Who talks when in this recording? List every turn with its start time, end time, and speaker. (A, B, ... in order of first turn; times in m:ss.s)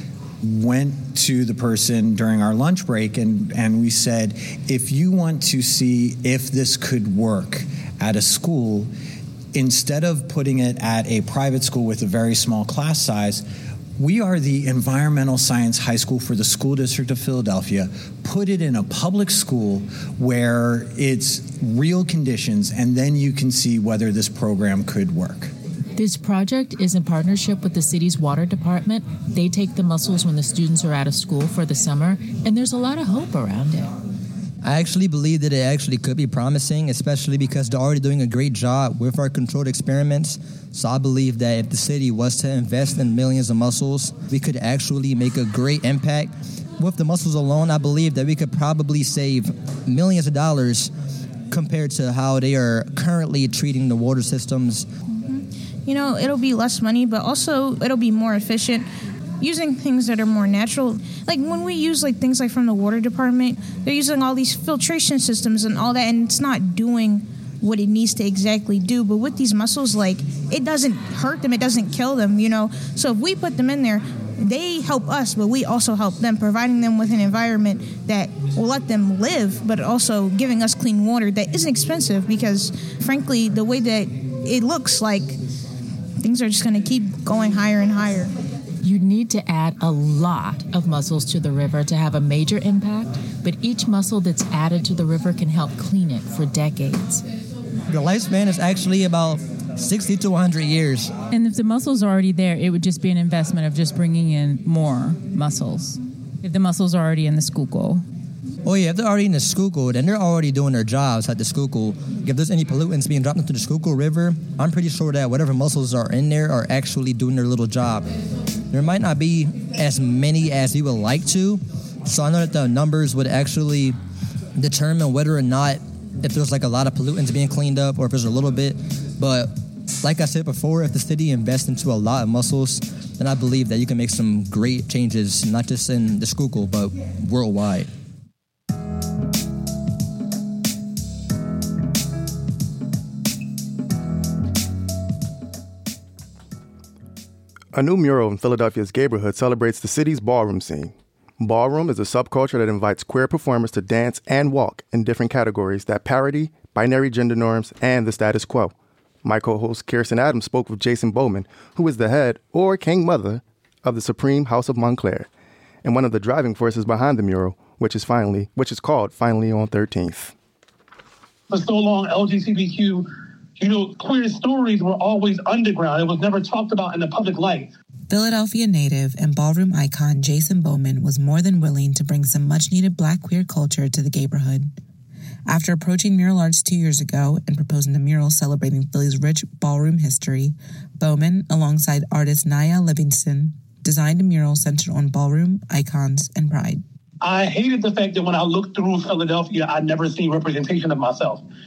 0:00.4-0:08.9 A
0:09.5-0:13.4 A
0:14.0-0:25.5 A
0:26.0-0:33.9 B
0:34.6-0:50.9 C
0:51.5-0:54.8 C
0:55.2-0:58.9 D
0:59.4-1:25.4 D
1:26.2-1:28.3 D
1:28.8-1:37.2 B
1:37.9-1:41.1 C
1:41.3-1:48.0 E
1:48.6-1:58.1 C
1:58.7-2:04.0 C
2:04.6-2:09.5 C
2:10.0-2:17.9 C
2:27.7-2:45.3 F
2:45.8-2:50.3 F
2:51.5-2:53.1 G
2:53.6-2:57.7 G
2:58.1-3:04.8 H
3:05.5-3:16.8 H
3:17.2-3:21.4 G